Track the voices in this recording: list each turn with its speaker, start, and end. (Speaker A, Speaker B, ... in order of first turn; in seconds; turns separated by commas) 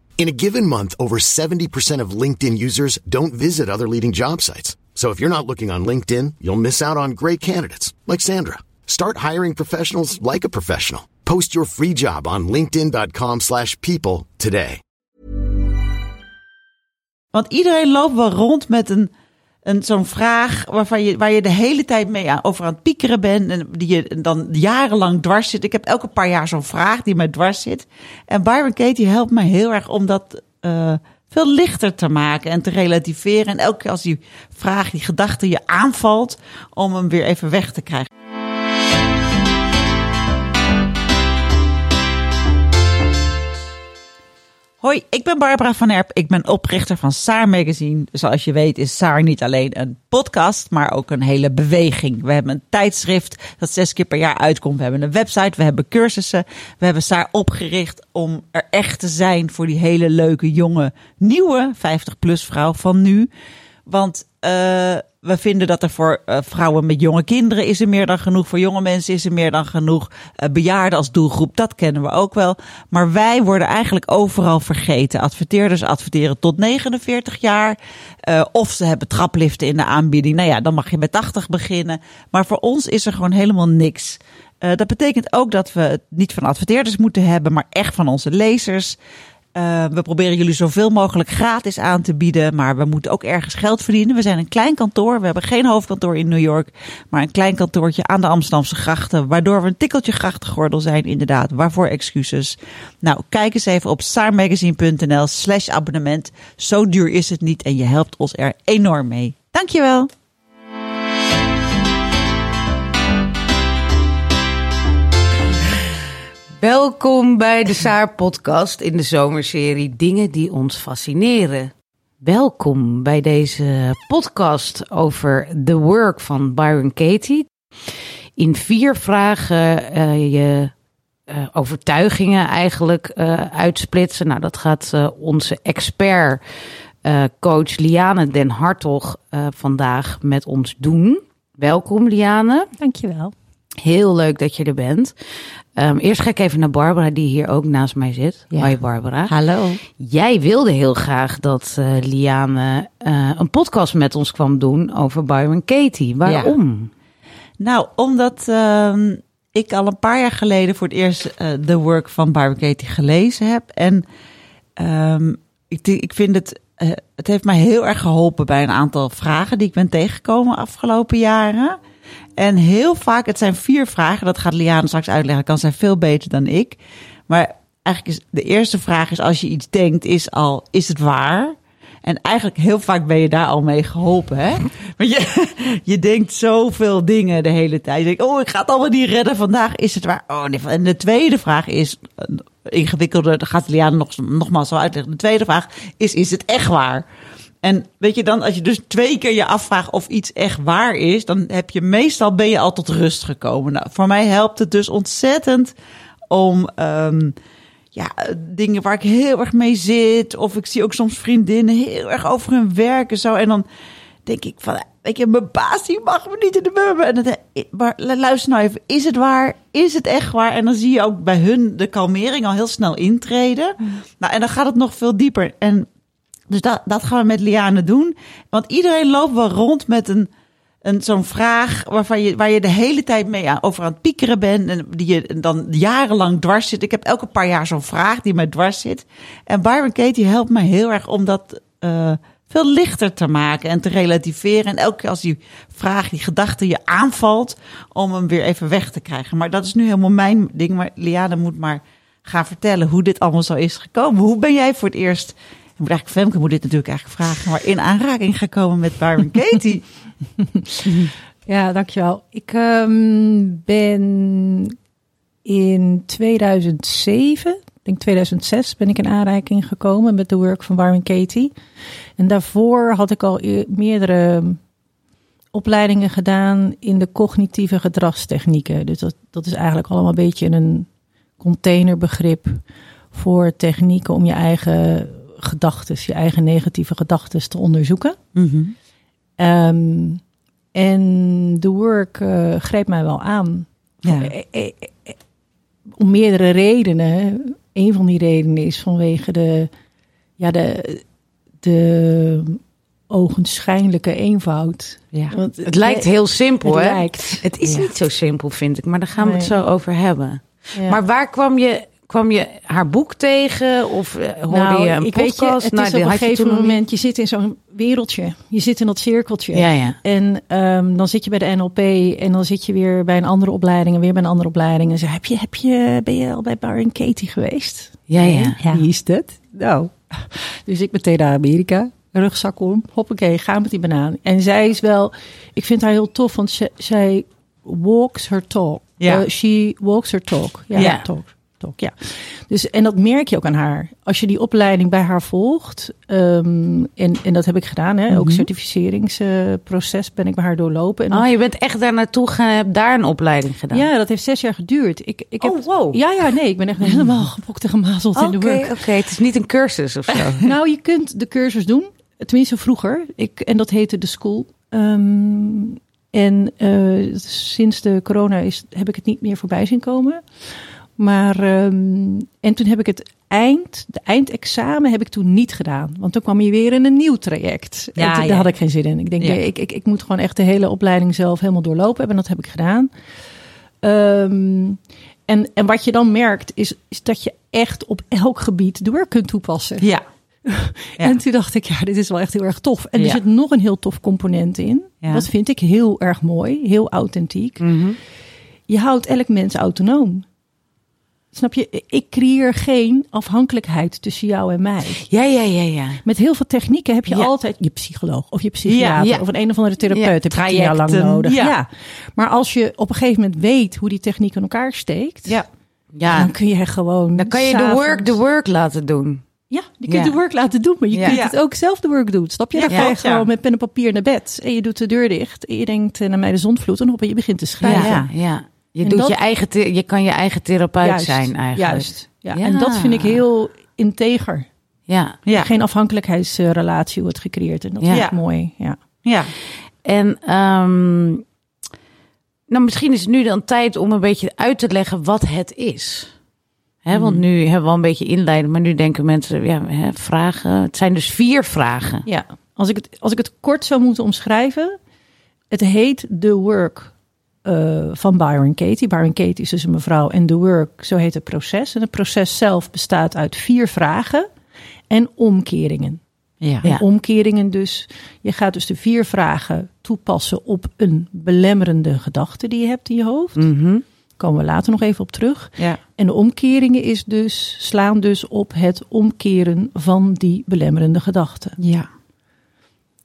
Speaker A: 0.2-14.8, Speaker B: 17.3-19.1, Speaker B: 19.7-38.1, Speaker B: 44.8-63.3, Speaker B: 63.9-89.0, Speaker B: 89.5-110.1, Speaker C: 116.6-121.7, Speaker C: 122.2-127.5, Speaker C: 128.4-130.7, Speaker C: 131.3-136.4, Speaker C: 137.0-142.7, Speaker D: 142.8-143.3, Speaker C: 143.8-145.1, Speaker C: 145.8-149.3, Speaker B: 149.3-149.8, Speaker C: 150.0-156.9, Speaker B: 156.3-156.5, Speaker B: 157.6-164.0, Speaker B: 164.8-171.8, Speaker B: 172.4-197.1, Speaker B: 197.6-205.7, Speaker B: 206.3-207.3, Speaker B: 207.9-213.7, Speaker B: 214.3-225.9, Speaker B: 226.5-230.3, Speaker B: 230.8-259.8, Speaker D: 260.4-260.9, Speaker D: 261.5-264.8, Speaker D: 265.4-271.5, Speaker D: 272.2-274.6, Speaker D: 275.5-280.9, Speaker D: 281.4-282.6, Speaker D: 283.1-288.2, Speaker B: 288.4-288.7, Speaker D: 289.4-290.2, Speaker D: 290.7-295.2, Speaker B: 294.1-294.3, Speaker D: 296.0-299.7, Speaker D: 300.4-301.0, Speaker D: 301.6-307.5, Speaker C: 305.6-316.8, Speaker B: 307.6-307.9, Speaker D: 309.2-309.6, Speaker D: 310.7-311.0, Speaker D: 314.5-351.3, Speaker C: 319.5-320.0, Speaker C: 328.1-328.6, Speaker C: 340.8-341.1, Speaker B: 348.1-348.5, Speaker C: 351.1-353.9, Speaker D: 353.7-358.8, Speaker C: 355.4-356.0, Speaker C: 358.2-360.5, Speaker D: 360.4-370.2, Speaker D: 371.0-382.9, Speaker B: 378.0-378.5, Speaker D: 383.8-389.9, Speaker D: 390.4-397.7, Speaker C: 397.6-398.0, Speaker D: 398.7-400.2, Speaker D: 401.3-405.1, Speaker C: 405.0-406.0, Speaker D: 406.0-415.4, Speaker B: 408.7-409.1, Speaker C: 409.0-409.2, Speaker B: 410.3-411.5, Speaker C: 415.9-416.3, Speaker D: 416.1-418.2, Speaker C: 417.1-419.2, Speaker D: 419.5-428.0, Speaker C: 419.9-420.2, Speaker C: 420.9-421.2, Speaker B: 421.1-421.4, Speaker B: 422.6-423.3, Speaker C: 427.6-433.2, Speaker B: 427.6-428.1, Speaker D: 428.8-429.2, Speaker D: 430.8-434.5, Speaker C: 434.9-435.2, Speaker D: 435.3-438.8, Speaker B: 437.9-438.2, Speaker B: 439.0-439.3, Speaker C: 439.8-441.2, Speaker C: 442.5-446.1, Speaker C: 446.9-452.1, Speaker B: 446.9-447.2, Speaker D: 452.1-454.8, Speaker D: 455.5-456.9, Speaker D: 457.4-464.3, Speaker D: 464.9-466.0, Speaker B: 466.4-466.7, Speaker D: 466.6-473.5, Speaker C: 473.4-473.8, Speaker D: 474.2-481.6, Speaker B: 481.6-481.9